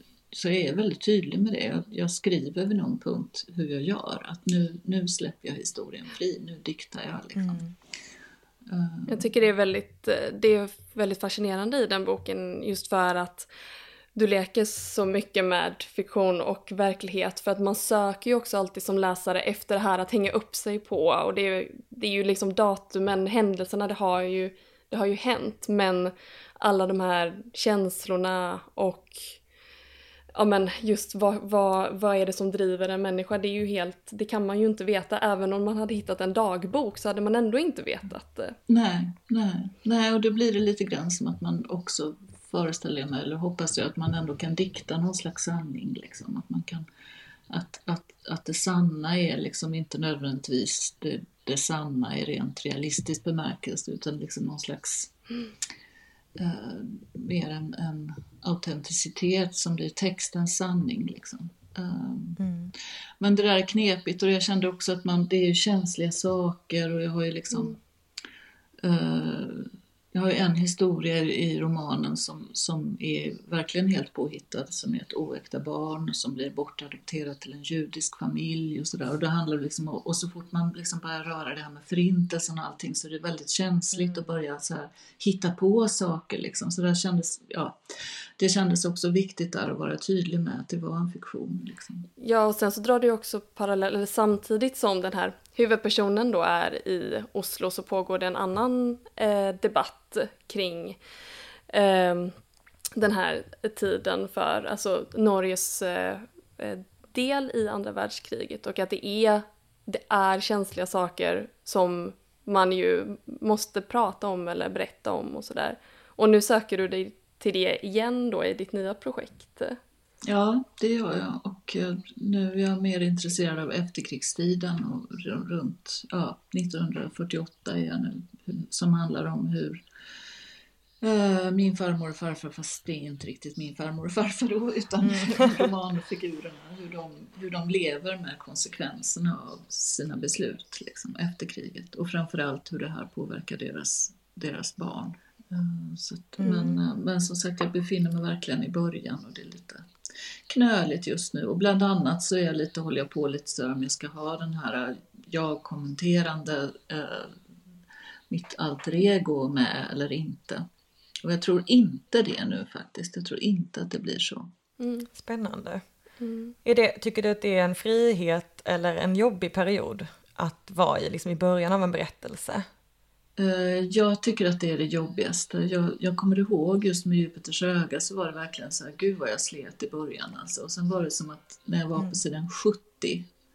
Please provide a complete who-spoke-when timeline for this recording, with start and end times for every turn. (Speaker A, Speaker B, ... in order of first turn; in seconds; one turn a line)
Speaker A: 0.3-7.6
Speaker B: 7.3-7.7
Speaker A: 8.7-9.3
Speaker C: 9.1-13.5
Speaker C: 14.1-29.4
Speaker C: 30.3-38.6
Speaker A: 38.7-46.9
Speaker A: 47.5-55.1
Speaker A: 56.4-62.4
Speaker B: 62.4-62.7
Speaker A: 63.2-67.8
Speaker A: 68.8-87.8
Speaker A: 88.4-92.1
Speaker C: 92.2-101.0
Speaker C: 101.7-102.3
Speaker C: 103.0-119.8
Speaker A: 120.2-129.8
Speaker A: 131.0-157.4
Speaker B: 135.0-135.7
Speaker B: 146.4-146.8
Speaker A: 158.3-160.7
Speaker A: 161.2-164.5
Speaker C: 164.8-165.1
Speaker B: 165.1-165.8
Speaker C: 166.2-166.6
Speaker B: 166.6-172.6
Speaker A: 173.4-183.3